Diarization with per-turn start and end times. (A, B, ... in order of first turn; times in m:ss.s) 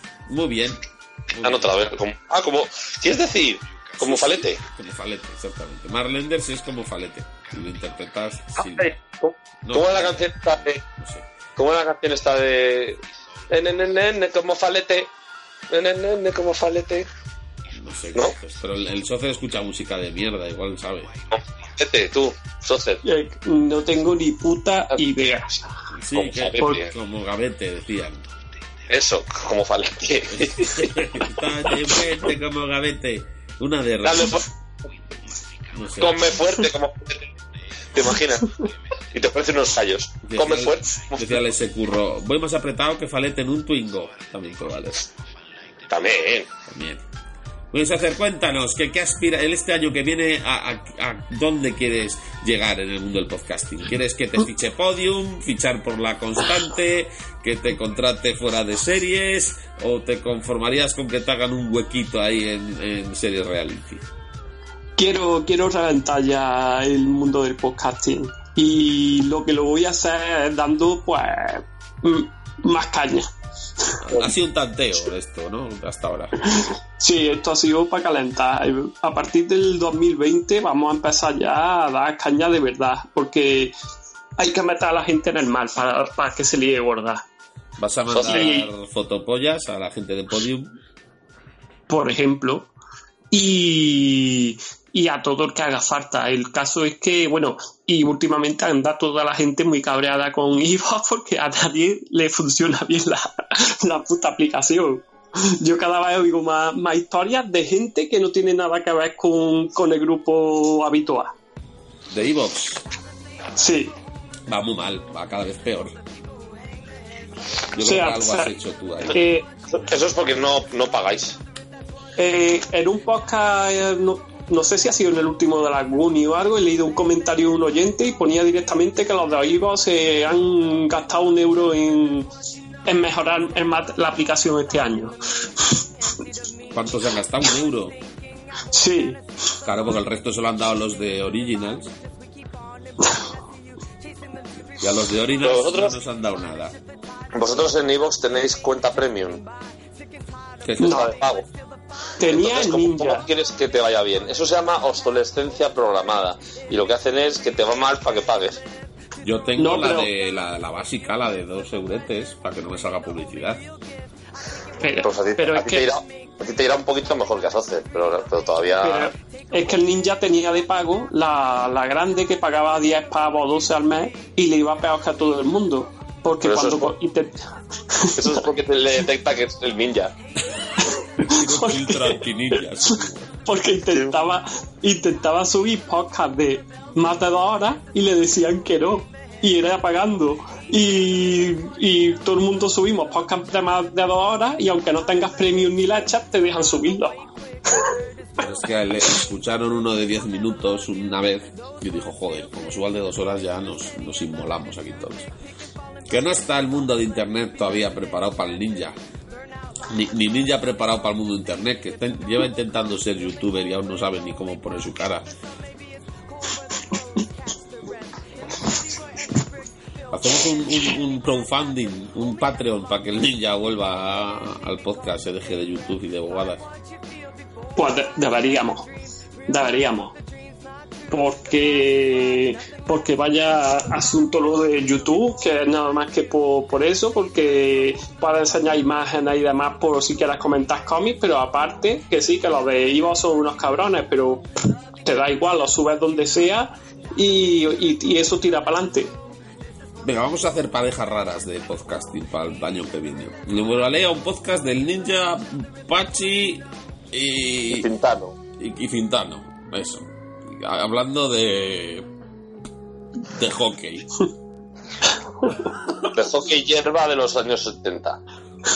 0:00.3-0:01.8 A
0:01.4-0:04.6 B
0:04.0-0:08.9 A
0:08.6-0:10.8 B
0:09.6-0:11.2 A
0:11.6-0:15.1 B
0:15.7-0:17.1 B
0:17.7-0:21.1 A
0:21.3-0:23.0 B
0:23.0-0:25.6 C
0:26.0-0:28.3 A
0:26.1-0:26.9 B
0:28.9-0:30.9 B
0:30.3-0:34.4 A
0:34.0-0:34.5 B
0:35.7-0:36.3 A
0:36.0-0:37.3 B
0:37.9-0:38.5 B
0:39.1-0:41.4 B
0:40.2-0:45.1 A
0:45.9-0:46.5 B
0:46.7-0:47.0 A
0:47.7-1:04.0 A
1:05.0-1:13.3 C
1:14.0-1:16.4 A
1:16.5-1:23.7 C
1:24.4-1:27.2 C
1:27.8-1:30.7 A
1:28.1-1:28.5 B
1:28.2-1:28.7 C
1:31.9-1:32.7 C
1:33.3-1:51.4 C
1:52.1-1:52.8 A
1:53.6-1:53.9 C
1:54.5-1:56.0 A
1:57.7-1:59.2 A
1:57.8-1:58.5 C
1:59.1-1:59.5 C
1:59.7-2:01.4 B
2:02.2-2:12.3 C
2:12.8-2:15.2 C
2:16.7-2:18.0 A
2:18.7-2:19.2 C
2:19.6-2:21.9 A
2:24.8-2:26.8 A
2:25.4-2:25.9 B
2:27.3-2:29.4 B
2:30.6-2:31.1 A
2:30.8-2:31.5 B
2:30.8-2:31.1 C
2:32.2-2:33.3 C
2:32.2-2:38.6 B
2:39.2-2:43.6 A
2:39.6-2:40.1 C
2:44.8-2:45.9 C
2:45.0-2:49.1 B
2:48.8-2:57.4 C
2:56.4-2:56.9 B
2:57.9-2:58.5 C
2:58.2-3:00.1 B
3:00.8-3:02.2 C
3:01.2-3:03.4 A
3:02.9-3:17.2 C
3:18.4-3:25.3 A
3:26.1-3:29.0 A
3:29.9-3:35.3 A
3:40.1-3:46.6 A
3:47.8-3:48.9 C
3:49.5-3:50.2 C
3:51.1-4:04.4 C
4:05.0-4:09.1 C
4:10.0-4:17.9 A
4:17.7-4:18.4 B
4:18.6-4:22.1 A
4:23.3-4:24.1 A
4:26.1-4:28.2 B